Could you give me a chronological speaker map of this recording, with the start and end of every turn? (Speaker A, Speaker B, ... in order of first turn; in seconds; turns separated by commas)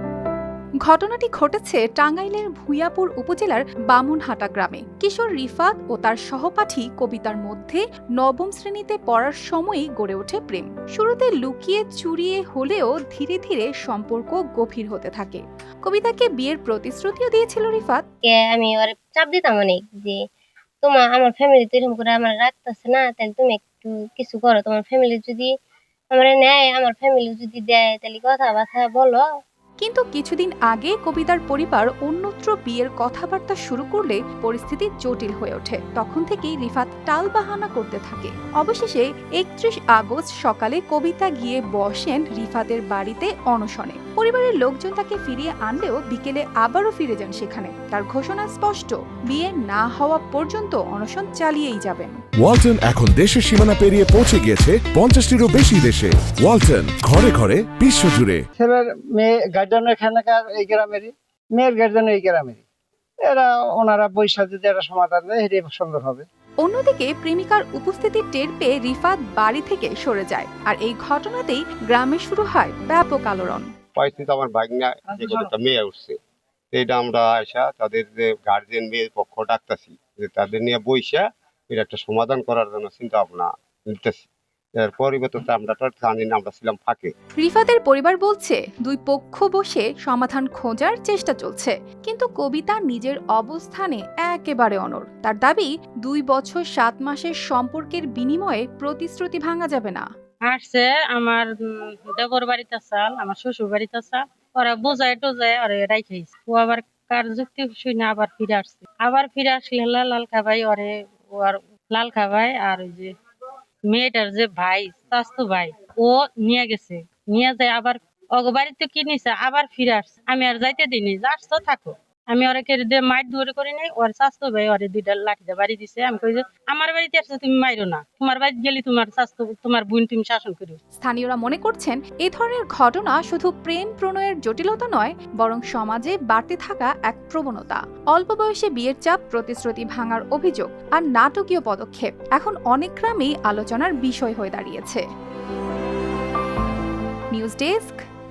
Speaker A: 0.8-18.0, Speaker B: 18.2-20.2, Speaker B: 20.8-25.5, Speaker B: 26.1-29.2, Speaker A: 29.8-52.2, Speaker C: 52.4-58.4, Speaker D: 58.6-62.6, Speaker D: 63.3-66.3, Speaker A: 66.6-73.7, Speaker E: 74.0-76.2, Speaker D: 75.2-75.5, Speaker E: 76.7-84.2, Speaker E: 84.8-87.1, Speaker A: 87.4-100.1, Speaker F: 100.5-113.1, Speaker F: 113.9-130.8, Speaker A: 131.0-145.1, Speaker A: 147.3-148.0